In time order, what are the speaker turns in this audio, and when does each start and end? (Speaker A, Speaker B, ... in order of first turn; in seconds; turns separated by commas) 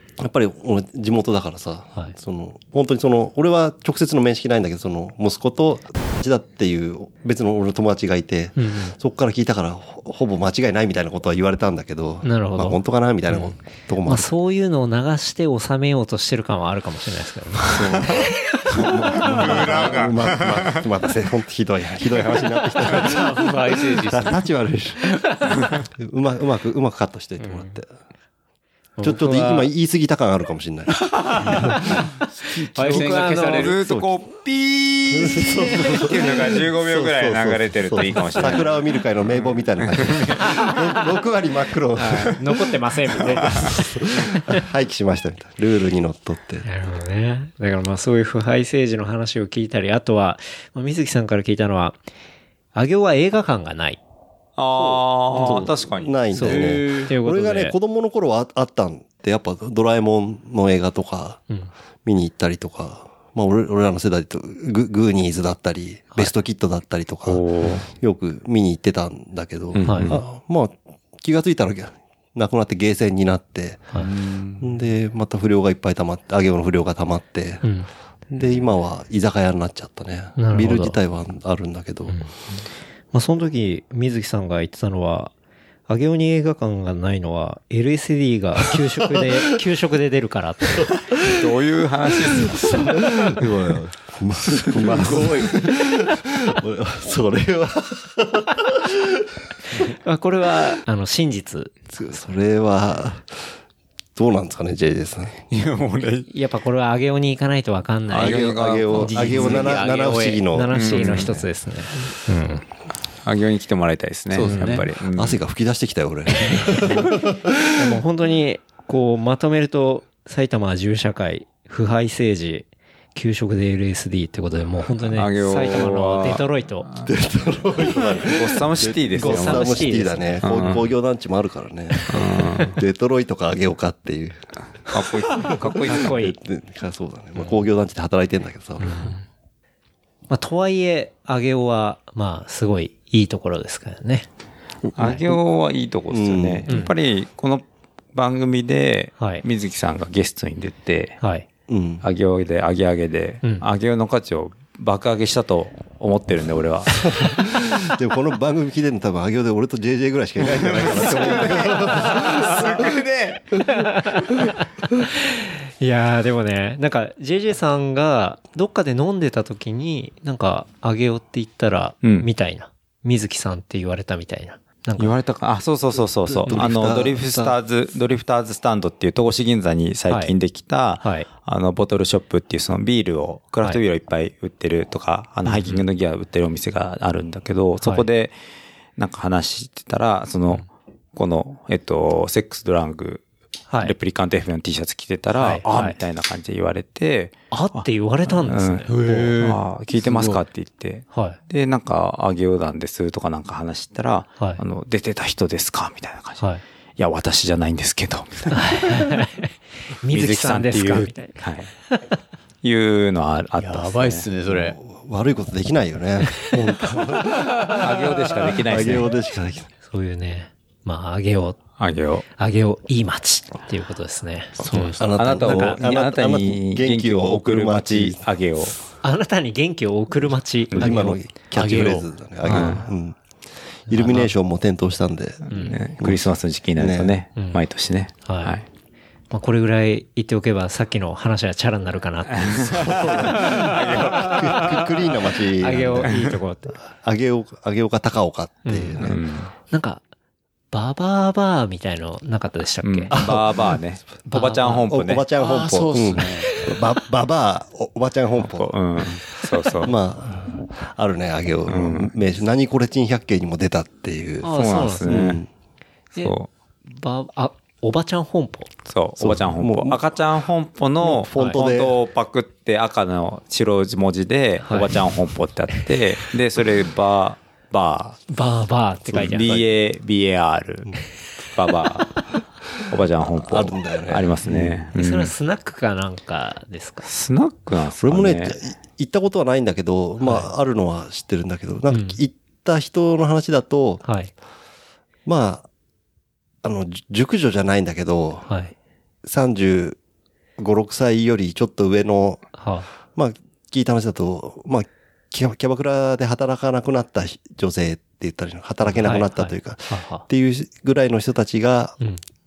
Speaker A: 0.2-14.3, Speaker B: 8.6-8.9, Speaker B: 12.2-12.8, Speaker B: 14.1-20.1, Speaker C: 17.6-20.8, Speaker A: 18.7-25.2, Speaker D: 22.9-24.5, Speaker B: 25.4-25.7, Speaker A: 26.0-27.8, Speaker B: 27.4-27.8, Speaker B: 29.0-29.7, Speaker A: 29.0-32.0, Speaker B: 31.4-31.8, Speaker D: 32.1-34.0, Speaker A: 32.5-33.0, Speaker B: 32.7-34.0, Speaker C: 32.9-40.7, Speaker A: 35.1-42.4, Speaker B: 35.6-36.0, Speaker B: 38.4-38.7, Speaker B: 41.9-44.6, Speaker A: 43.4-46.6, Speaker B: 46.6-52.0, Speaker B: 52.7-54.0, Speaker C: 54.6-56.6, Speaker A: 54.8-61.4, Speaker D: 55.3-55.6, Speaker B: 56.3-57.8, Speaker D: 56.5-57.1, Speaker A: 62.0-74.0, Speaker C: 67.2-67.9, Speaker C: 69.7-70.2, Speaker B: 69.8-70.1, Speaker D: 74.0-74.6, Speaker A: 74.6-77.6, Speaker B: 77.6-77.9, Speaker A: 78.3-82.2, Speaker B: 80.4-81.0, Speaker B: 83.1-85.3, Speaker B: 85.9-90.9, Speaker A: 89.1-89.4, Speaker A: 90.7-91.6, Speaker C: 91.2-93.5, Speaker A: 92.1-99.7, Speaker D: 94.5-95.7, Speaker B: 99.7-101.8, Speaker A: 101.9-103.4, Speaker A: 104.1-105.4, Speaker C: 105.5-106.3, Speaker B: 106.3-109.6, Speaker A: 108.1-111.3, Speaker C: 108.1-109.7, Speaker D: 109.1-110.5, Speaker B: 110.5-112.6, Speaker C: 110.7-111.4, Speaker C: 113.2-115.4, Speaker D: 114.3-114.8, Speaker B: 114.4-114.7, Speaker A: 115.0-118.0, Speaker B: 116.3-117.1, Speaker B: 117.7-126.9, Speaker C: 125.1-127.1, Speaker A: 127.0-139.1, Speaker C: 128.2-129.9, Speaker B: 129.1-130.4, Speaker C: 130.4-130.8, Speaker C: 132.1-132.8, Speaker C: 134.9-136.1, Speaker B: 135.8-136.3, Speaker B: 138.8-139.2, Speaker B: 140.3-144.2, Speaker A: 144.8-145.4, Speaker C: 144.9-151.2, Speaker A: 146.1-146.7, Speaker B: 149.2-149.4, Speaker B: 151.2-151.4, Speaker A: 151.7-152.0, Speaker C: 152.0-157.2, Speaker A: 157.0-163.0, Speaker C: 160.5-163.6, Speaker B: 161.8-162.4, Speaker B: 163.7-175.1, Speaker C: 172.0-172.3, Speaker C: 175.0-188.3, Speaker A: 176.3-177.6, Speaker B: 180.1-180.3, Speaker B: 181.0-181.3, Speaker B: 185.4-185.8, Speaker C: 189.0-193.2, Speaker B: 193.7-193.9, Speaker C: 193.8-197.8, Speaker B: 195.4-196.0, Speaker B: 197.5-198.9, Speaker C: 198.4-206.4, Speaker D: 198.8-200.4, Speaker B: 201.1-201.4, Speaker C: 207.0-209.2, Speaker B: 208.5-212.1, Speaker C: 210.1-211.7, Speaker C: 212.6-214.3, Speaker D: 213.6-214.8, Speaker A: 214.5-217.8, Speaker D: 217.7-218.2, Speaker C: 217.7-219.1, Speaker A: 218.6-219.7, Speaker B: 219.8-221.6, Speaker C: 221.8-222.2, Speaker B: 222.4-225.8, Speaker D: 224.6-225.2, Speaker A: 225.0-228.7, Speaker C: 225.0-228.7, Speaker B: 229.0-231.2, Speaker A: 230.7-233.2, Speaker D: 231.5-232.7, Speaker B: 232.4-232.8, Speaker C: 232.5-232.8, Speaker A: 233.9-237.1, Speaker B: 233.9-234.3, Speaker B: 235.5-235.8, Speaker C: 235.6-238.6, Speaker B: 237.3-237.6, Speaker B: 238.2-238.6, Speaker B: 239.3-243.6, Speaker C: 242.4-245.1, Speaker A: 242.5-246.2, Speaker B: 245.6-246.8, Speaker A: 246.8-249.2, Speaker B: 248.7-249.1, Speaker C: 249.0-249.5, Speaker B: 249.7-250.0, Speaker B: 250.7-253.2, Speaker C: 252.8-255.2, Speaker A: 253.1-253.8, Speaker B: 254.2-254.9, Speaker A: 254.9-265.5, Speaker D: 255.3-256.5, Speaker B: 256.5-256.8, Speaker C: 258.4-259.9, Speaker C: 261.7-262.1, Speaker B: 264.4-265.4, Speaker C: 264.5-265.4, Speaker C: 266.2-266.5, Speaker B: 266.9-268.7, Speaker C: 268.9-278.2, Speaker A: 269.2-270.0, Speaker A: 271.0-272.0, Speaker B: 274.6-275.0, Speaker B: 278.3-279.5, Speaker A: 279.0-279.7, Speaker C: 279.2-285.3, Speaker A: 283.1-284.9, Speaker B: 284.9-287.1, Speaker C: 287.0-288.6, Speaker A: 288.0-294.0, Speaker B: 290.2-290.5, Speaker B: 291.9-292.2, Speaker B: 294.0-294.3, Speaker A: 295.2-295.6, Speaker A: 296.6-298.5, Speaker B: 298.5-298.7, Speaker A: 299.2-300.0, Speaker A: 300.6-302.5, Speaker B: 302.6-302.9, Speaker A: 303.1-312.0, Speaker B: 308.9-310.2